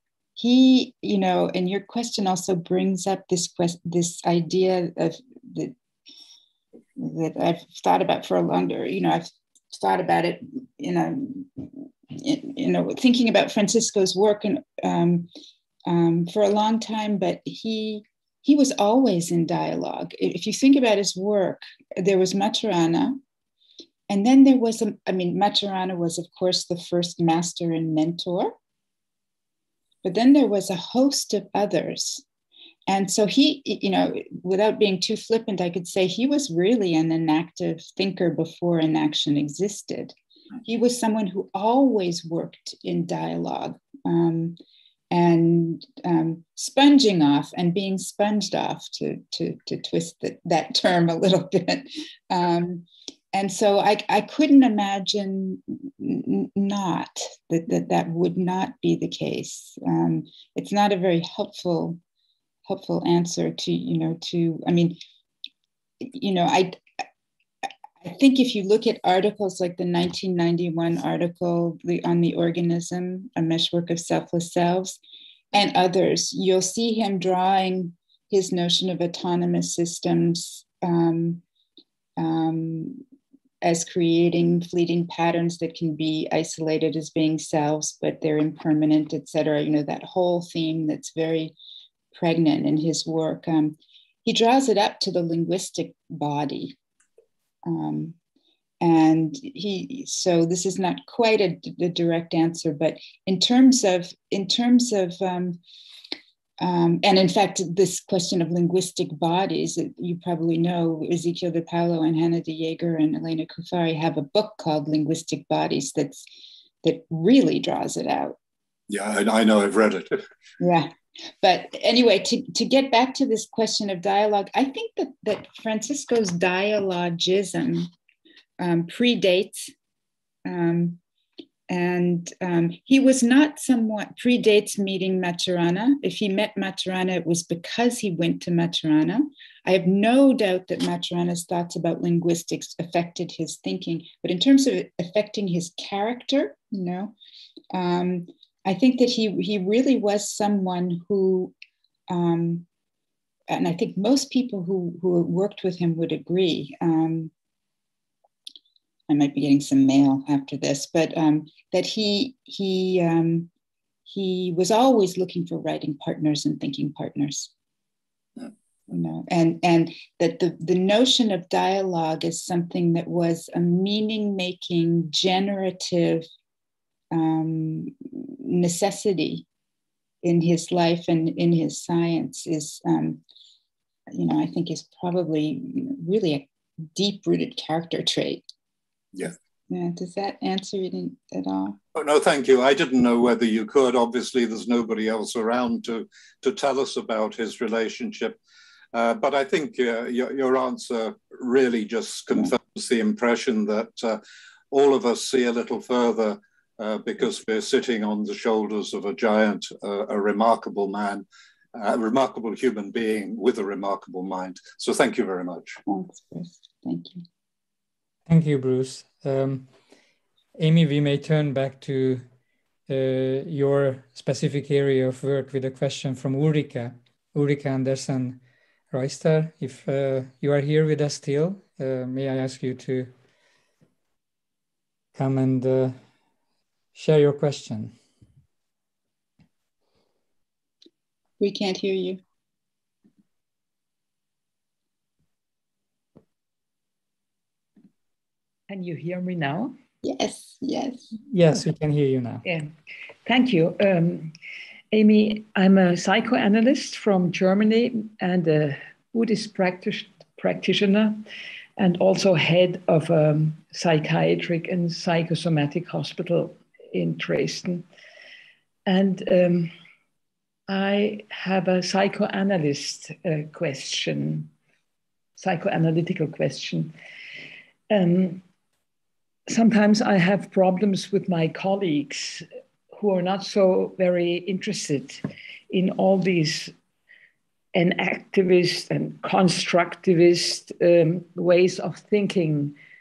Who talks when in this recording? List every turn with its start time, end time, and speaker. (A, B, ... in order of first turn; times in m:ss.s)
0:00.4-0:05.7 A
0:07.0-0:15.3 A
0:15.9-0:23.2 A
0:24.1-0:28.5 A
0:30.0-0:32.2 A
0:32.9-0:44.6 A
0:45.1-1:02.0 A
1:02.6-1:05.0 A
1:06.0-1:06.8 A
1:08.0-1:15.0 A
1:15.5-1:21.4 A
1:22.2-1:23.0 A
1:23.6-1:31.6 A
1:32.1-1:36.8 A
1:37.6-1:38.2 A
1:38.8-1:45.6 A
1:46.6-1:56.2 A
1:56.8-1:58.4 A
1:58.9-2:00.2 B
2:00.6-2:07.9 A
2:08.6-2:09.7 A
2:10.4-2:11.0 A
2:11.7-2:27.1 A
2:27.7-2:31.5 A
2:32.1-2:32.7 A
2:33.5-2:37.3 A
2:39.1-2:43.5 A
2:44.1-2:47.5 A
2:48.9-2:56.3 A
2:57.1-2:59.5 A
3:00.2-3:03.2 A
3:04.1-3:08.4 A
3:09.7-3:11.8 A
3:12.0-3:18.4 B
3:18.9-3:24.2 B
3:24.7-3:35.8 B
3:35.9-3:37.2 A
3:38.3-3:39.7 C
3:40.6-3:42.2 C
3:42.9-3:48.4 C
3:48.9-3:53.1 C
3:55.2-3:56.0 C
3:57.0-3:58.0 C
4:01.4-4:02.2 A
4:08.7-4:09.8 D
4:10.0-4:11.1 A
4:11.3-4:12.4 C
4:12.4-4:12.7 D
4:13.2-4:14.4 D
4:14.9-4:21.2 D
4:21.8-4:27.9 D
4:28.9-4:29.7 D
4:30.7-4:34.5 D
4:35.4-4:36.9 D
4:37.9-4:38.4 D
4:39.5-4:46.7 D
4:47.7-4:52.8 D